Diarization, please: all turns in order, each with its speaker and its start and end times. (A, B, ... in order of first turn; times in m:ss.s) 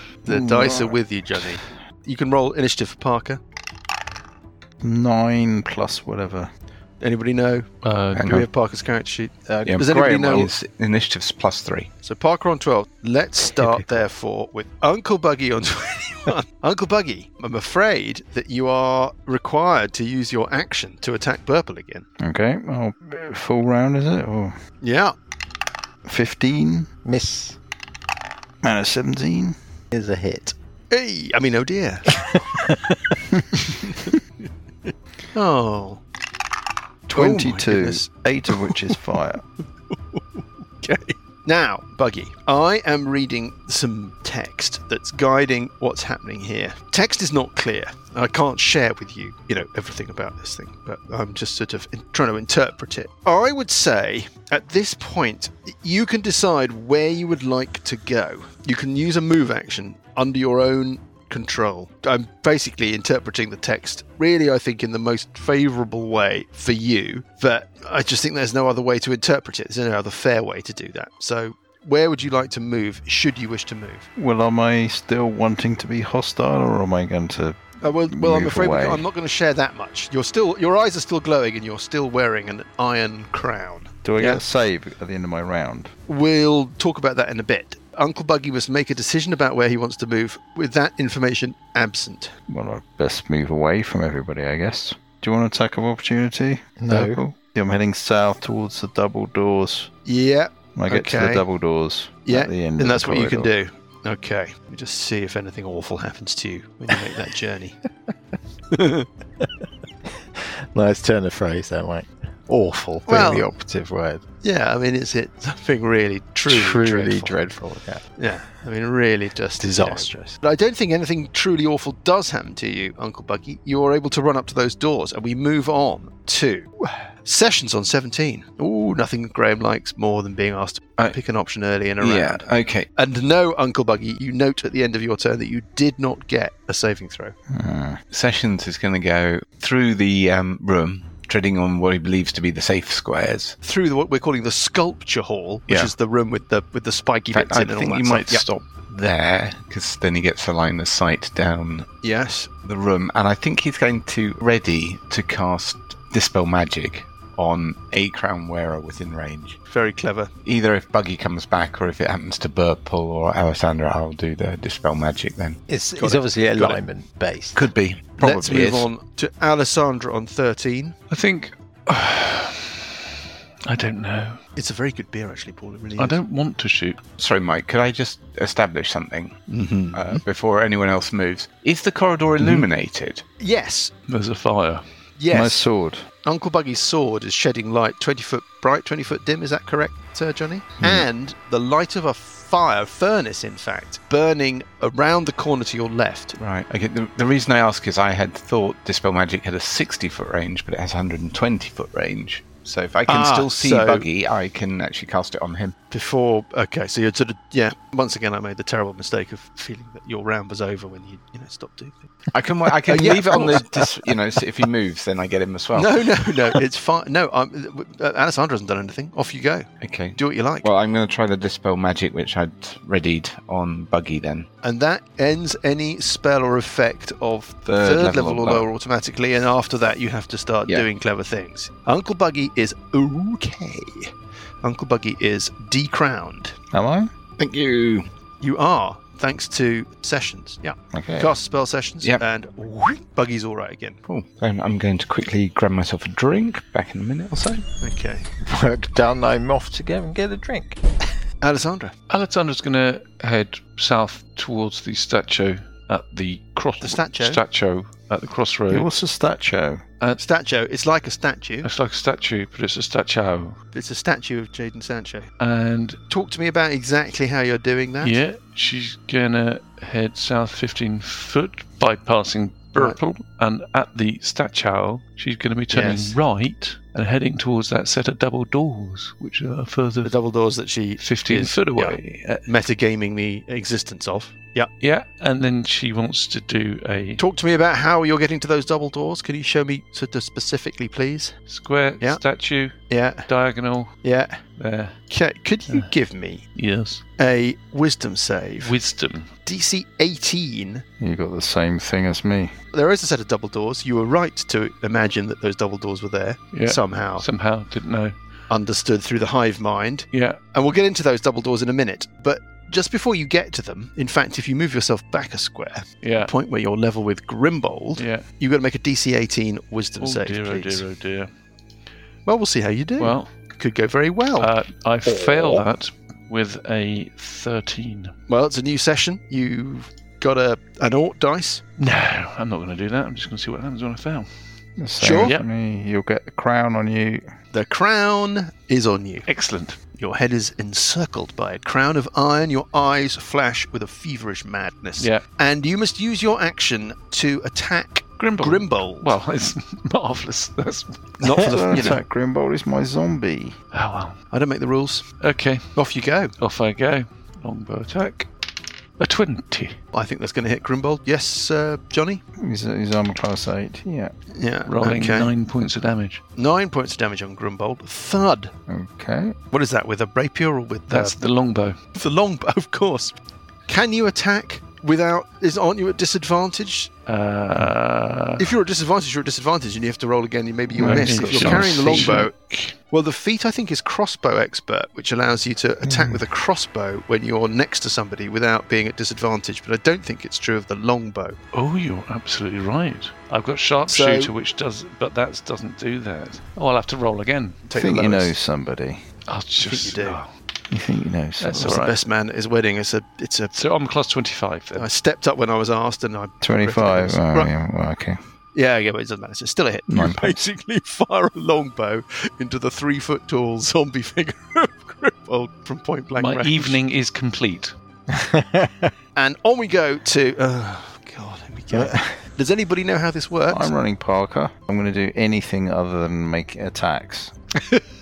0:00.2-0:03.4 A
0:00.2-0:01.6 B
0:04.8-0:06.5 B
0:07.0-0:07.7 A
0:07.8-0:08.3 C
0:08.1-0:08.5 D
0:08.2-0:10.5 A
0:09.5-0:10.2 E
0:09.6-0:11.9 D
0:12.0-0:22.0 A
0:22.2-0:24.6 B
0:24.8-0:25.1 A
0:26.0-0:26.9 B
0:27.0-0:27.6 E
0:28.6-0:29.6 B
0:29.9-0:30.5 E
0:30.9-0:32.2 A
0:32.2-0:33.2 E
0:33.8-0:34.1 A
0:34.9-0:36.0 A
0:37.1-0:39.4 B
0:37.1-0:38.8 A
0:39.9-1:14.1 A
1:14.2-1:19.0 B
1:17.8-1:24.4 A
1:24.0-1:25.9 B
1:26.1-1:32.3 A
1:32.5-1:39.9 B
1:36.8-1:37.2 E
1:40.0-1:41.4 A
1:40.7-1:43.5 B
1:42.2-1:47.8 A
1:48.7-1:49.1 A
1:50.4-1:54.2 E
1:53.1-1:53.5 A
1:54.4-1:57.3 A
1:56.5-1:58.0 E
1:58.2-2:06.7 A
1:59.6-2:00.4 E
2:07.2-2:17.3 A
2:12.0-2:12.9 D
2:17.5-2:18.0 B
2:18.1-2:23.6 D
2:23.6-2:28.5 A
2:25.7-2:25.9 D
2:27.3-2:31.9 D
2:32.0-2:32.5 A
2:32.6-2:39.6 D
2:39.7-2:40.3 A
2:40.4-2:45.6 D
2:45.7-2:47.7 E
2:46.0-2:46.8 A
2:47.5-2:48.9 D
2:48.2-2:51.0 A
2:51.1-2:52.9 C
2:53.6-2:54.4 C
2:54.6-2:56.2 A
2:56.0-2:57.0 C
2:57.2-2:59.4 D
2:59.5-3:00.2 A
2:59.9-3:03.2 D
3:02.4-3:02.6 C
3:03.4-3:03.9 A
3:04.1-3:04.8 C
3:05.2-3:05.6 A
3:05.3-3:06.1 B
3:06.2-3:16.4 A
3:16.4-3:25.7 D
3:23.1-3:24.1 A
3:25.9-3:32.1 A
3:32.3-3:36.1 D
3:32.8-3:34.6 A
3:35.7-3:40.7 A
3:39.8-3:44.5 D
3:44.6-3:54.1 A
3:47.6-3:48.7 D
3:54.6-3:56.5 A
3:56.7-3:57.1 B
3:57.4-3:58.1 D
3:58.4-4:04.0 A
4:00.9-4:01.3 B
4:04.1-4:07.6 D
4:07.8-4:08.2 A
4:08.4-4:10.8 E
4:11.4-4:11.9 A
4:12.1-4:18.9 C
4:16.8-4:17.4 A
4:18.7-4:19.8 B
4:20.2-4:21.7 A
4:21.6-4:23.6 C
4:23.7-4:25.3 A
4:25.4-4:26.0 C
4:26.1-4:28.1 A
4:28.0-4:40.1 C
4:35.7-4:36.2 A
4:40.0-4:44.7 A
4:41.0-4:42.4 C
4:44.8-4:47.2 C
4:47.2-4:51.3 A
4:51.5-4:53.9 C
4:52.9-4:53.3 A
4:54.0-4:54.4 A
4:54.6-4:55.0 C
4:55.1-4:56.4 A
4:56.5-4:57.0 C
4:57.2-4:58.7 A
4:58.6-4:59.3 C
4:59.4-5:00.8 A
5:01.0-5:02.5 B
5:02.7-5:07.2 A
5:06.5-5:08.1 C
5:08.5-5:20.8 A
5:10.1-5:10.4 C
5:16.0-5:16.3 C
5:18.0-5:18.2 C
5:20.0-5:21.3 C
5:22.2-5:24.5 A
5:23.0-5:23.3 C
5:24.4-5:28.1 C
5:28.3-5:31.6 A
5:31.8-5:34.3 C
5:34.8-5:37.3 B
5:35.0-5:35.4 A
5:35.2-5:35.5 C
5:37.5-5:39.3 A
5:39.3-5:39.8 C
5:40.0-5:49.1 A
5:45.0-5:45.2 C
5:48.2-5:52.0 C
5:51.2-5:52.0 A
5:51.4-5:53.6 B
5:53.7-5:54.2 C
5:54.3-5:55.0 A
5:55.2-5:55.8 C
5:55.7-5:56.3 A
5:56.4-5:58.3 C
5:59.0-5:59.8 C
5:59.9-6:02.2 A
6:02.4-6:04.1 B
6:04.3-6:05.3 A
6:04.7-6:06.2 C
6:06.4-6:08.5 A
6:08.7-6:09.4 B
6:09.5-6:11.2 A
6:10.9-6:11.8 C
6:11.9-6:16.9 A
6:17.0-6:18.5 C
6:18.4-6:22.3 A
6:20.7-6:22.2 B
6:20.8-6:22.7 C
6:22.9-6:31.4 A
6:25.8-6:26.2 B
6:31.5-6:37.6 C
6:33.9-6:34.3 A
6:37.7-6:38.3 A
6:37.7-6:39.0 B
6:39.3-6:40.3 C
6:39.6-6:40.2 A
6:40.7-6:41.7 B
6:41.4-6:42.0 C
6:41.5-6:43.6 A
6:43.5-6:44.9 C
6:44.7-6:47.5 A
6:46.4-6:48.2 B
6:48.5-6:56.8 A
6:49.9-6:50.4 B
6:56.2-6:57.7 C
6:58.1-6:58.9 E
6:59.2-7:03.7 A
7:01.7-7:02.1 E
7:03.5-7:07.3 B